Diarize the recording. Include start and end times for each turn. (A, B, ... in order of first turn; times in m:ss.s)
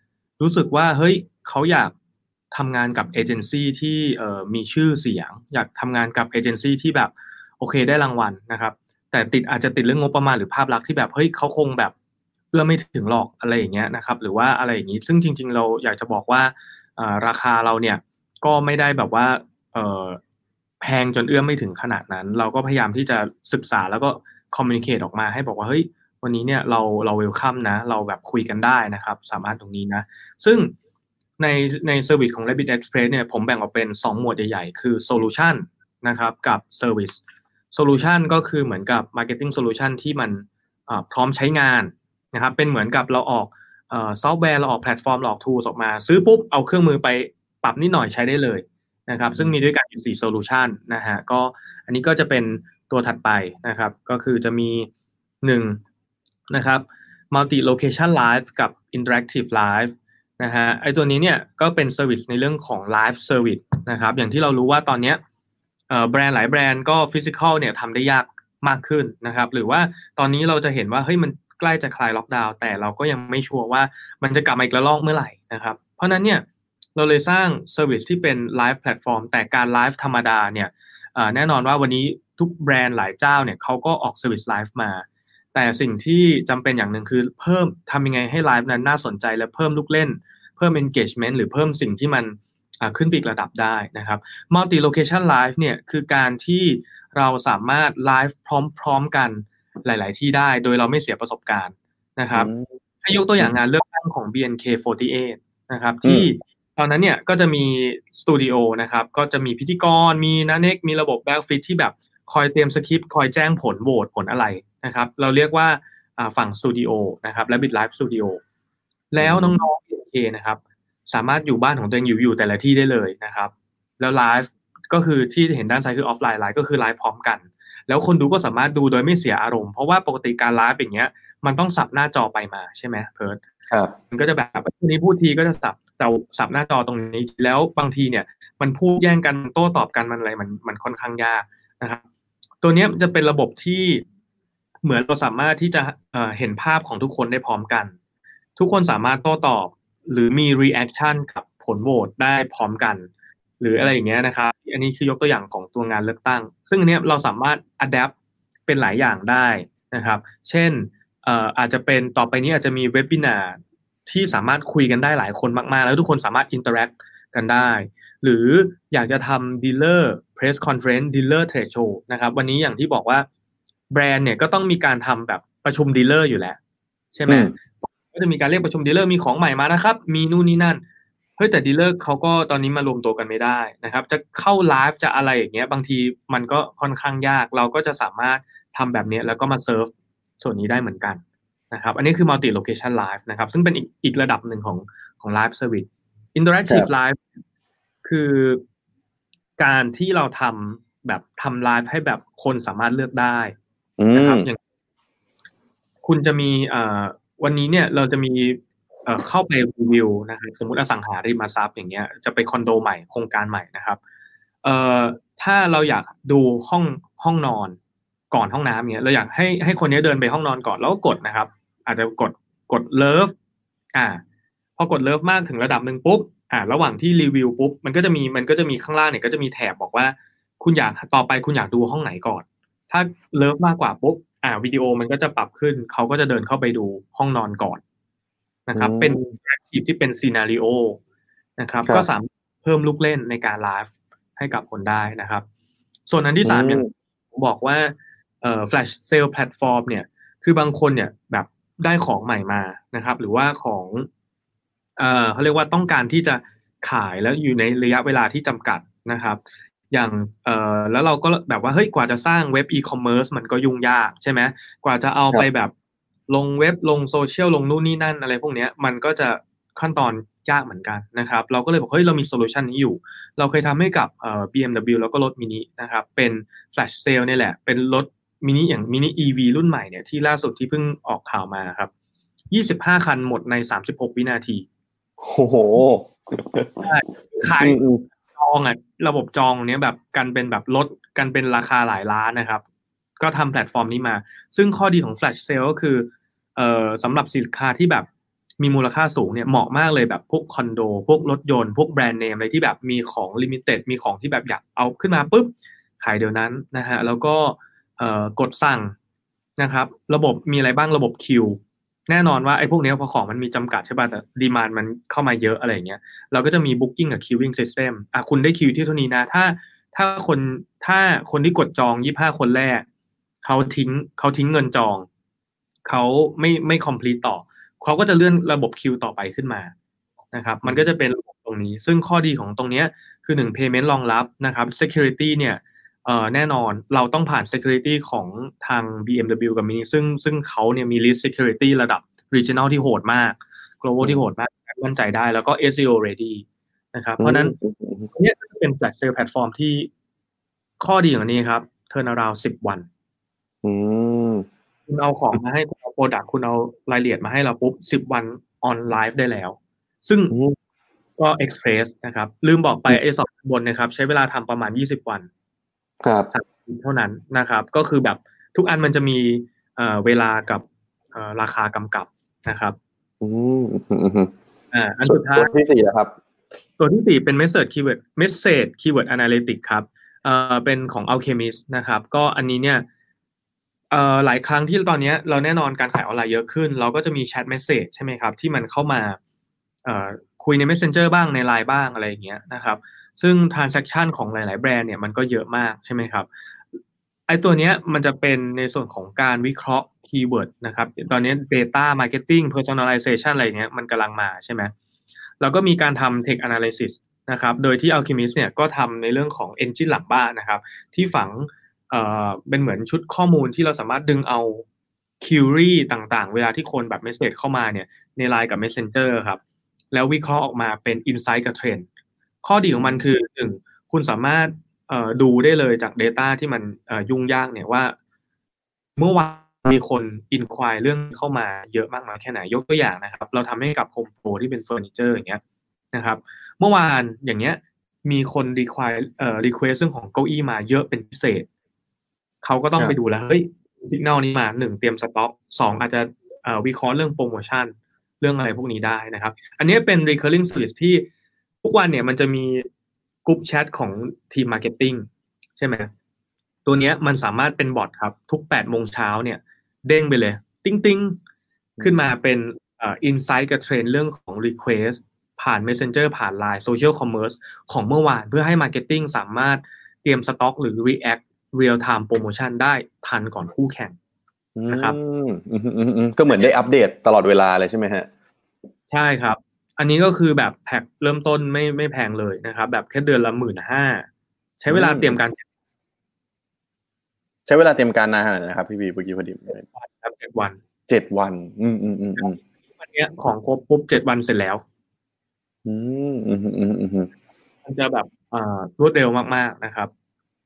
0:00.4-0:01.9 A
0:02.5-0:11.9 A
0:12.5-0:20.2 A
0:20.8-0:30.7 A
0:31.4-0:37.2 A
0:37.7-0:54.9 A
0:49.3-0:49.5 B
0:55.4-0:55.8 A
0:56.5-1:05.2 A
1:05.9-1:16.4 A
1:17.0-1:42.5 A
1:42.3-1:42.8 B
1:43.0-1:58.4 A
1:46.0-1:46.3 B
1:59.1-2:13.4 A
1:59.2-1:59.6 B
2:14.1-2:22.0 A
2:22.6-2:24.0 A
2:24.8-2:27.9 A
2:28.6-2:33.1 A
2:33.6-2:38.1 A
2:38.7-2:53.2 A
2:53.9-2:56.6 A
2:57.1-3:00.8 A
3:01.4-3:17.2 A
3:18.0-3:18.6 A
3:19.6-3:23.5 A
3:24.0-3:24.5 B
3:24.1-3:24.6 A
3:26.0-3:34.0 A
3:34.6-3:37.8 A
3:38.3-3:43.3 A
3:43.9-3:44.2 A
3:44.8-3:57.8 A
3:58.7-4:01.0 A
3:58.7-3:59.3 B
4:01.6-4:05.4 A
4:06.1-4:14.1 A
4:06.4-4:06.9 B
4:15.0-4:19.4 A
4:19.9-4:25.7 A
4:26.3-4:41.9 A
4:42.5-4:44.6 A
4:45.2-4:46.8 B
4:46.8-4:47.8 A
4:47.6-4:48.0 B
4:48.3-4:52.6 A
4:53.2-4:58.1 A
4:58.6-5:08.9 A
5:09.6-5:22.8 A
5:23.4-5:25.1 A
5:25.8-5:29.7 A
5:30.3-5:47.5 A
5:47.2-5:48.1 B
5:48.1-5:49.9 A
5:50.8-5:52.9 A
5:53.6-5:54.4 B
5:54.9-6:00.3 A
6:00.3-6:00.6 B
6:01.2-6:05.3 A
6:06.0-6:06.3 B
6:06.3-6:12.8 A
6:13.2-6:14.3 B
6:14.7-6:15.5 A
6:15.0-6:16.2 B
6:16.8-6:22.8 A
6:23.9-6:29.2 A
6:29.8-6:36.3 A
6:37.3-6:44.7 A
6:45.4-6:54.6 A
6:55.2-6:59.4 A
6:59.9-7:01.8 A
7:02.4-7:07.9 A
7:02.8-7:03.0 B
7:09.0-7:15.4 A
7:15.9-7:21.5 A
7:22.4-7:31.1 A
7:31.6-7:32.7 A
7:33.2-7:35.9 A
7:36.6-7:41.2 A
7:41.8-7:54.0 A
7:54.6-7:58.1 B
7:54.7-7:55.0 A
7:58.9-8:04.1 A
8:04.6-8:05.4 A
8:04.7-8:05.2 B
8:07.4-8:09.6 B
8:09.7-8:10.6 A
8:10.9-8:12.4 B
8:12.2-8:14.6 A
8:15.6-8:17.1 B
8:17.6-8:19.9 A